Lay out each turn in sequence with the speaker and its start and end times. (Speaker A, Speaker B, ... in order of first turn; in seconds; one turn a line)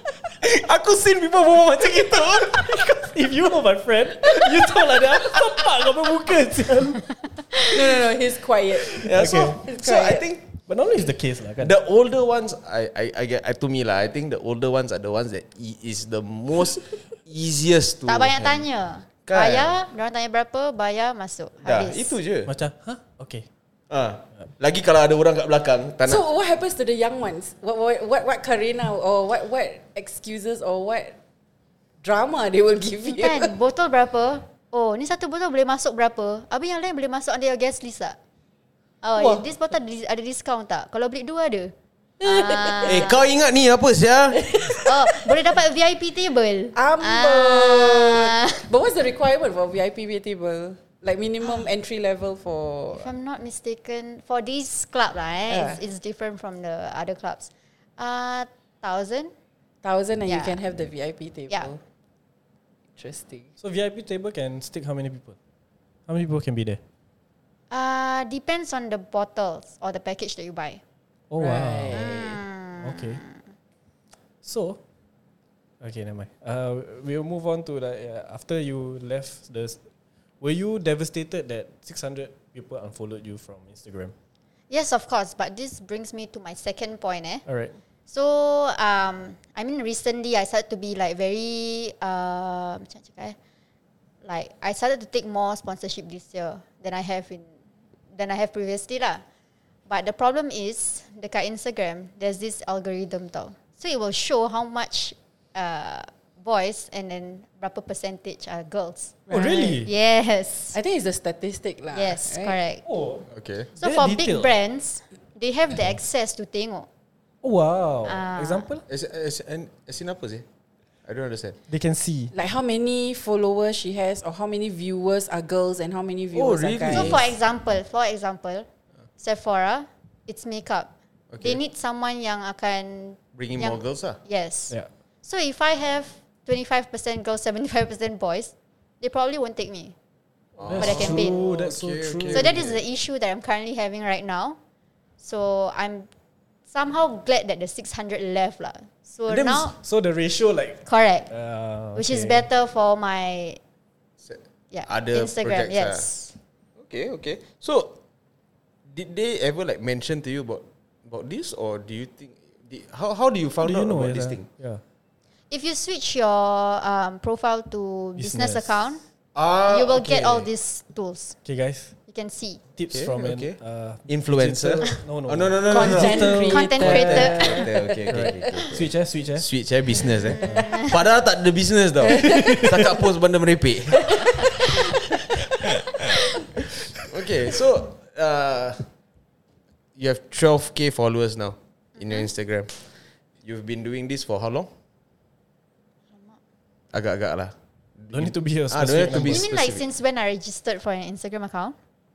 Speaker A: 0.4-2.9
Speaker B: 2.6-7.0
Speaker A: 4.4-4.6
Speaker C: 7.7-10.2
Speaker A: 8.9-10.5
Speaker B: 9.0-9.6
Speaker B: 10.7-11.7
Speaker A: 11.6-18.6
Speaker D: 18.1-22.1
Speaker A: 19.2-19.8
Speaker A: 21.6-22.5
Speaker B: 22.4-23.4
Speaker A: 23.9-26.2
Speaker C: 26.0-31.1
Speaker C: 32.0-33.5
Speaker D: 33.1-38.2
Speaker D: 39.0-43.3
Speaker C: 39.2-39.5
Speaker C: 42.2-43.1
Speaker A: 42.8-44.5
Speaker C: 44.4-45.2
Speaker D: 44.7-48.7
Speaker C: 46.7-53.1
Speaker D: 52.9-59.3
Speaker C: 55.5-55.8
Speaker C: 59.8-61.8
Speaker D: 60.2-60.6
Speaker C: 63.0-63.5
Speaker B: 63.6-65.4
Speaker B: 66.1-66.8
Speaker D: 67.7-70.8
Speaker B: 71.3-72.1
Speaker C: 71.4-72.4
Speaker D: 71.9-73.3
Speaker B: 72.8-73.2
Speaker B: 74.4-74.8
Speaker B: 75.8-79.8
Speaker B: 80.4-84.1
Speaker D: 84.7-87.4
Speaker B: 87.5-87.7
Speaker D: 88.1-93.3
Speaker D: 94.2-97.5
Speaker D: 98.1-99.2
Speaker D: 99.9-109.2
Speaker C: 109.3-109.8
Speaker B: 109.3-109.9
Speaker D: 109.8-110.8
Speaker C: 110.7-112.6
Speaker D: 111.9-112.8
Speaker B: 112.8-113.2
Speaker A: 113.3-113.7
Speaker B: 113.8-114.5
Speaker D: 113.8-116.9
Speaker B: 117.4-118.8
Speaker D: 118.0-118.7
Speaker A: 118.9-120.5
Speaker A: 121.0-121.5
Speaker B: 121.7-122.3
Speaker C: 122.3-127.2
Speaker A: 126.3-127.3
Speaker D: 126.9-128.7
Speaker D: 129.2-139.9
Speaker A: 131.3-131.6
Speaker A: 133.3-134.2
Speaker A: 140.6-142.8
Speaker B: 140.7-142.6
Speaker D: 140.8-141.4
Speaker D: 142.3-144.6
Speaker D: 145.2-146.1
Speaker D: 146.7-149.8
Speaker A: 149.3-149.7
Speaker B: 149.8-152.4
Speaker D: 150.8-151.3
Speaker D: 151.9-153.6
Speaker A: 154.2-156.1
Speaker D: 154.7-156.3
Speaker A: 156.8-157.9
Speaker A: 158.9-164.4
Speaker B: 163.6-164.8
Speaker D: 165.5-169.0
Speaker B: 168.2-168.8
Speaker A: 169.3-170.5
Speaker D: 169.7-171.4
Speaker B: 171.4-171.9
Speaker D: 172.1-172.6
Speaker B: 172.8-179.5
Speaker A: 172.9-173.6
Speaker A: 174.1-176.3
Speaker C: 175.7-177.7
Speaker D: 176.4-177.6
Speaker A: 176.8-184.4
Speaker D: 180.2-181.0
Speaker B: 182.3-182.8
Speaker A: 187.0-188.8
Speaker A: 189.9-192.7
Speaker D: 192.0-192.3
Speaker A: 193.4-194.7
Speaker A: 196.9-199.8
Speaker B: 198.1-199.4
Speaker D: 199.2-201.8